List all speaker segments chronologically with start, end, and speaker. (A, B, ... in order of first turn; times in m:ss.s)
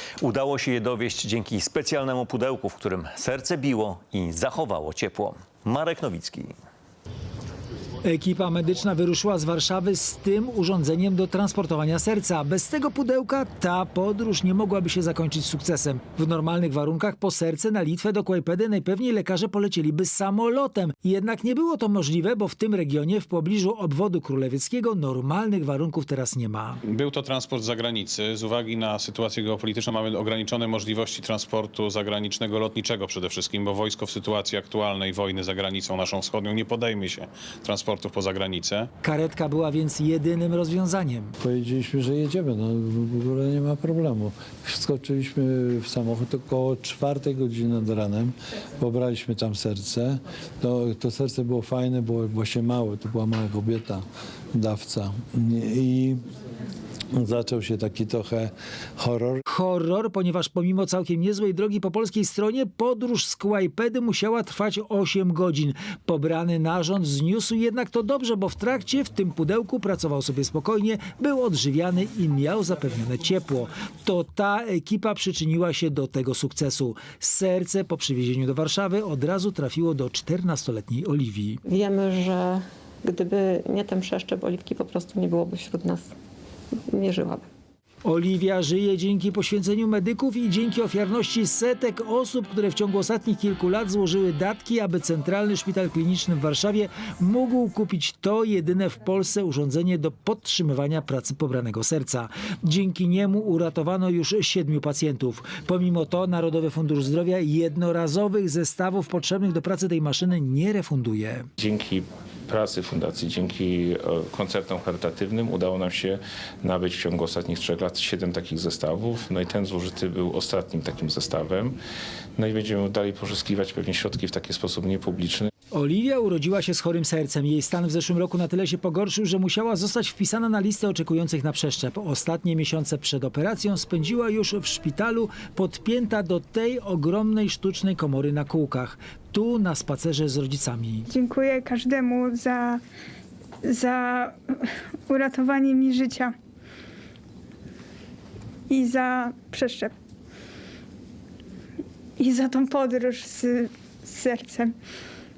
0:00.2-0:06.5 A
0:08.0-0:26.8 B
0:26.8-0:38.9 C
0:39.0-0:41.3 B
0:41.4-0:54.0 D
0:54.5-0:56.2 D
0:57.1-0:59.4 D
0:59.5-1:21.6 B
1:21.7-1:26.1 E
1:26.9-1:27.4 E
1:28.0-1:51.5 B
1:51.6-2:01.8 F
2:02.4-2:05.5 F
2:05.7-2:21.1 B
2:21.1-2:22.8 G
2:23.6-2:24.4 G
2:25.1-2:26.3 G
2:28.7-2:29.9 G
2:32.2-2:34.7 G